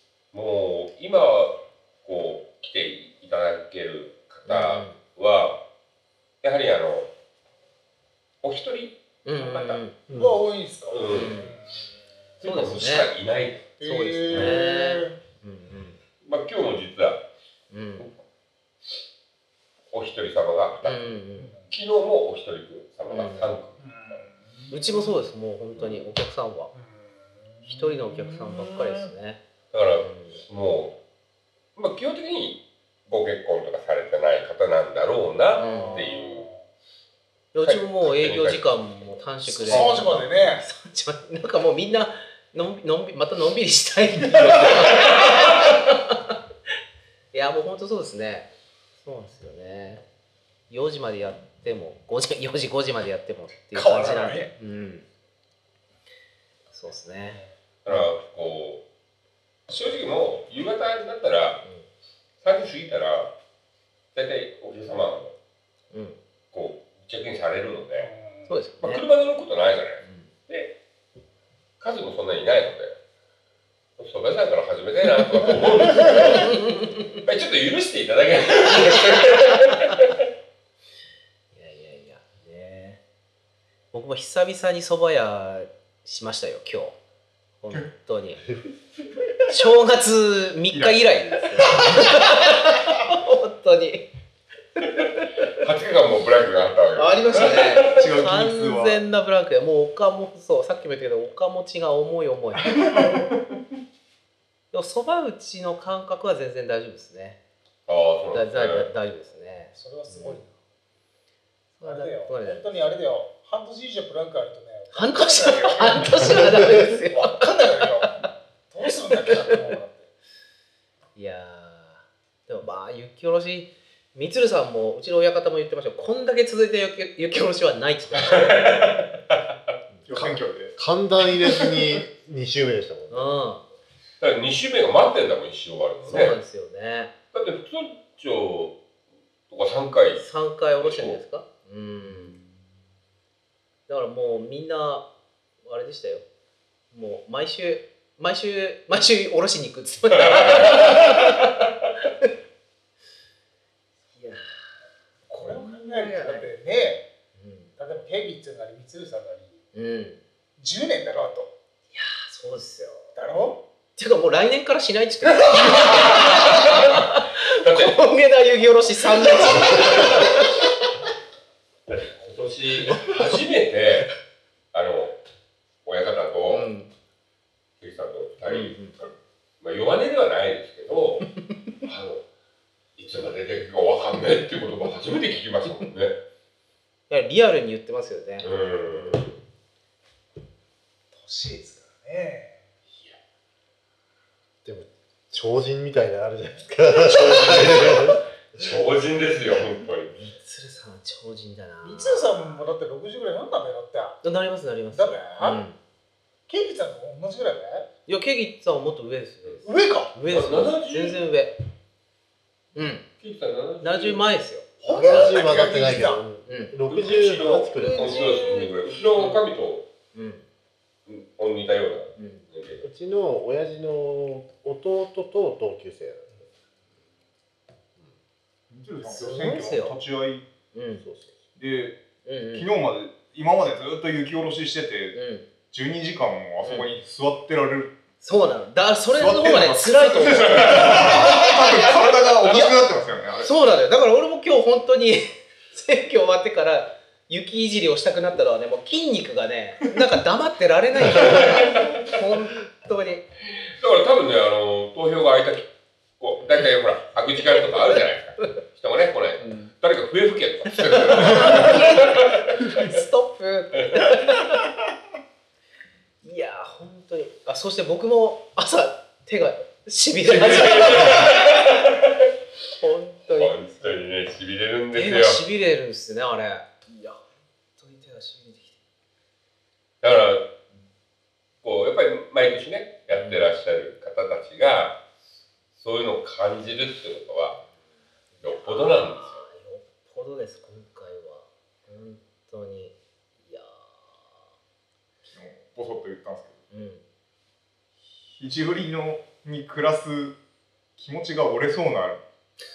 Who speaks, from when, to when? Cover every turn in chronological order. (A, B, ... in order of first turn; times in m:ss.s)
0:00.3-0:05.6 A
0:04.4-0:05.0 B
0:06.4-0:07.1 A
0:08.4-0:09.8 A
0:09.2-0:10.0 B
0:10.1-0:10.4 C
0:10.1-0:11.8 D
0:10.8-0:11.5 A
0:11.1-0:11.5 B
0:12.4-0:13.7 A
0:12.4-0:13.1 B
0:13.8-0:15.2 D
0:13.8-0:16.0 B
0:14.3-0:14.6 A
0:16.2-0:17.2 A
0:17.7-0:18.1 B
0:19.9-0:24.2 A
0:20.8-0:21.5 B
0:21.4-0:21.7 D
0:23.1-0:23.5 B
0:23.8-0:25.2 D
0:24.7-0:26.7 B
0:25.7-0:26.0 A
0:26.7-0:29.1 D
0:27.6-0:29.4 B
0:29.7-0:31.0 A
0:29.9-0:30.4 B
0:31.8-0:36.5 A
0:35.5-0:36.1 B
0:35.5-0:36.6 D
0:37.5-0:46.3 B
0:37.6-0:38.8 A
0:39.4-0:40.6 D
0:39.6-0:40.5 A
0:47.3-0:48.5 B
0:49.0-0:50.0 B
0:50.7-0:55.0 B
0:53.7-0:54.5 D
0:56.7-0:57.4 B
0:57.8-0:58.8 A
0:59.7-1:01.6 A
1:01.6-1:01.9 B
1:02.4-1:03.3 A
1:04.1-1:05.3 A
1:05.9-1:06.2 B
1:06.5-1:08.1 A
1:08.0-1:08.5 D
1:08.5-1:09.0 B
1:08.8-1:10.8 A
1:10.0-1:10.3 B
1:11.8-1:13.0 A
1:14.0-1:16.6 A
1:16.1-1:17.2 B
1:17.1-1:20.1 A
1:21.5-1:23.0 B
1:23.9-1:27.0 B
1:27.6-1:28.4 B
1:29.5-1:34.1 B
1:30.7-1:31.1 E
1:31.6-1:32.0 E
1:34.8-1:35.3 B
1:35.6-1:38.0 A
1:36.9-1:43.0 B
1:37.8-1:39.0 E
1:42.7-1:43.4 E
1:44.7-1:47.4 B
1:47.9-1:48.9 A
1:48.3-1:50.4 B
1:49.7-1:50.5 D
1:51.8-1:52.7 B
1:51.8-1:56.3 D
1:54.9-1:57.4 B
1:56.2-1:56.8 C
1:57.1-2:00.1 D
2:01.1-2:08.8 B
2:08.1-2:09.4 A
2:10.0-2:13.4 C
2:10.1-2:11.9 E
2:13.1-2:13.6 B
2:14.2-2:16.4 A
2:16.0-2:17.1 B
2:17.3-2:18.8 A
2:19.5-2:20.3 A
2:20.2-2:22.4 B
2:20.8-2:21.2 A
2:23.9-2:25.1 B
2:25.6-2:26.2 B
2:26.9-2:31.3 B
2:30.3-2:31.0 A
2:34.1-2:34.5 B
2:35.3-2:37.0 D
2:35.4-2:36.5 B
2:37.3-2:37.7 B
2:37.8-2:39.6 D
2:39.7-2:40.2 B
2:40.6-2:41.5 D
2:41.9-2:43.1 B
2:43.1-2:43.6 D
2:44.0-2:50.7 B
2:45.6-2:48.0 A
2:49.0-2:50.5 A
2:51.9-2:54.1 A
2:52.9-2:53.4 B
2:54.7-2:55.2 A
2:55.8-2:56.7 A
2:56.5-2:56.9 B
2:57.8-2:59.1 A
2:58.4-2:59.0 B
2:59.6-3:01.2 A
3:01.8-3:02.2 A
3:03.0-3:06.2 A
3:07.1-3:08.5 B
3:08.4-3:09.4 A
3:11.1-3:12.6 D
3:14.6-3:18.2 C
3:17.0-3:20.1 A
3:20.1-3:22.3 B
3:21.8-3:24.2 D
3:24.2-3:25.8 B
3:24.9-3:25.6 D
3:26.5-3:27.8 D
3:28.0-3:29.6 B
3:29.6-3:30.2 D
3:30.1-3:31.6 B
3:30.3-3:31.2 A
3:32.7-3:33.0 B
3:33.2-3:34.2 A
3:33.8-3:35.6 B
3:34.8-3:36.2 D
3:34.9-3:38.3 C
3:36.4-3:36.7 B
3:36.9-3:39.9 A
3:37.8-3:39.4 B
3:40.1-3:40.4 B
3:41.0-3:42.8 A
3:42.2-3:42.4 B
3:42.8-3:46.3 C
3:48.7-3:50.4 E
3:49.0-3:50.0 B
3:50.7-3:51.0 B
3:51.0-3:51.3 C
3:51.6-3:55.2 E
3:52.2-3:52.7 B
3:55.1-3:55.5 B
3:55.7-3:57.9 E
3:58.2-4:02.8 B
3:59.1-4:03.5 E
4:03.4-4:13.2 B
4:11.2-4:11.9 A
4:13.6-4:22.2 A
4:16.4-4:16.7 B
4:19.4-4:19.7 B
4:21.1-4:24.7 B
4:26.2-4:31.3 B
4:30.2-4:32.0 A
4:32.8-4:34.0 B
4:33.3-4:35.4 A
4:34.9-4:37.2 B
4:37.8-4:38.8 B
4:40.0-4:40.5 A
4:41.6-4:45.0 A
4:43.1-4:43.4 B
4:45.8-4:47.6 A
4:48.4-4:49.4 A
4:48.4-4:54.4 B
4:55.3-4:56.6 E
4:56.7-4:57.0 B
4:58.3-5:00.4 E
5:01.0-5:02.2 E